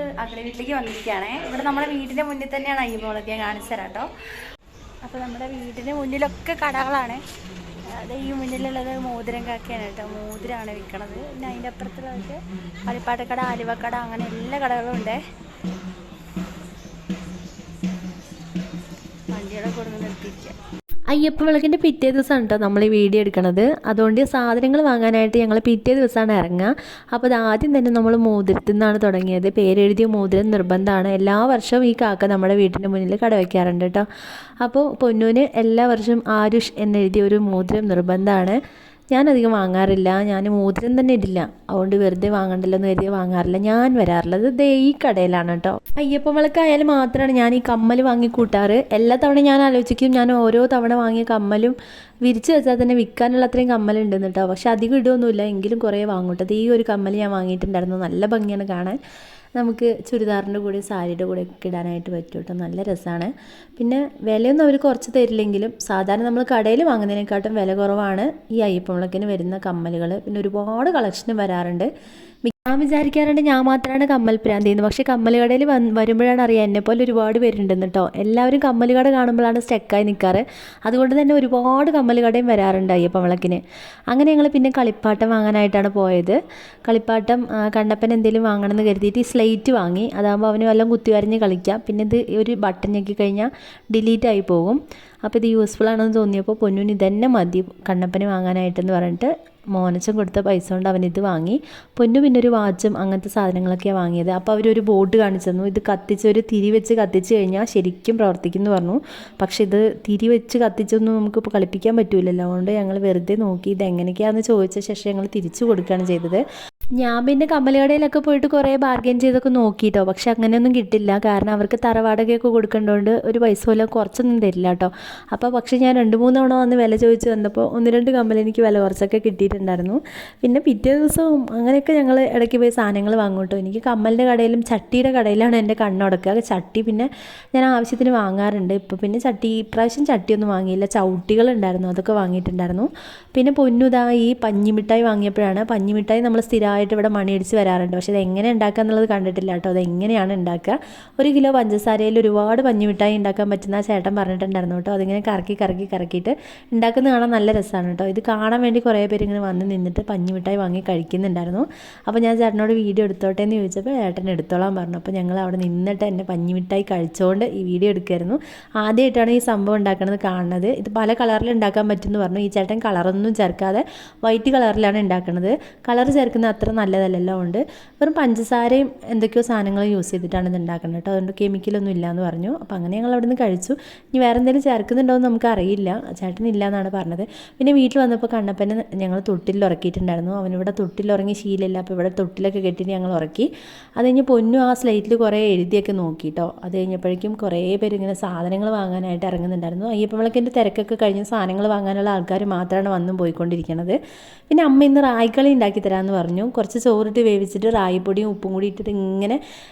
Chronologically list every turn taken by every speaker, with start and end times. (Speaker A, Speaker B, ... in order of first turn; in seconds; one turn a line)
Speaker A: 0.2-4.0
Speaker B: 0.4-0.9
Speaker B: 2.2-3.9
Speaker A: 5.1-7.2
Speaker B: 6.2-6.7
Speaker A: 8.1-12.4
Speaker A: 12.9-15.2
Speaker B: 13.6-14.4
Speaker A: 19.4-20.5
Speaker B: 19.6-20.4
Speaker B: 21.1-34.0
Speaker B: 34.6-38.6
Speaker B: 39.1-59.0
Speaker B: 59.6-71.9
Speaker B: 72.4-83.6
Speaker B: 84.1-86.4
Speaker B: 86.9-116.4
Speaker B: 117.0-204.0
Speaker B: 204.5-209.4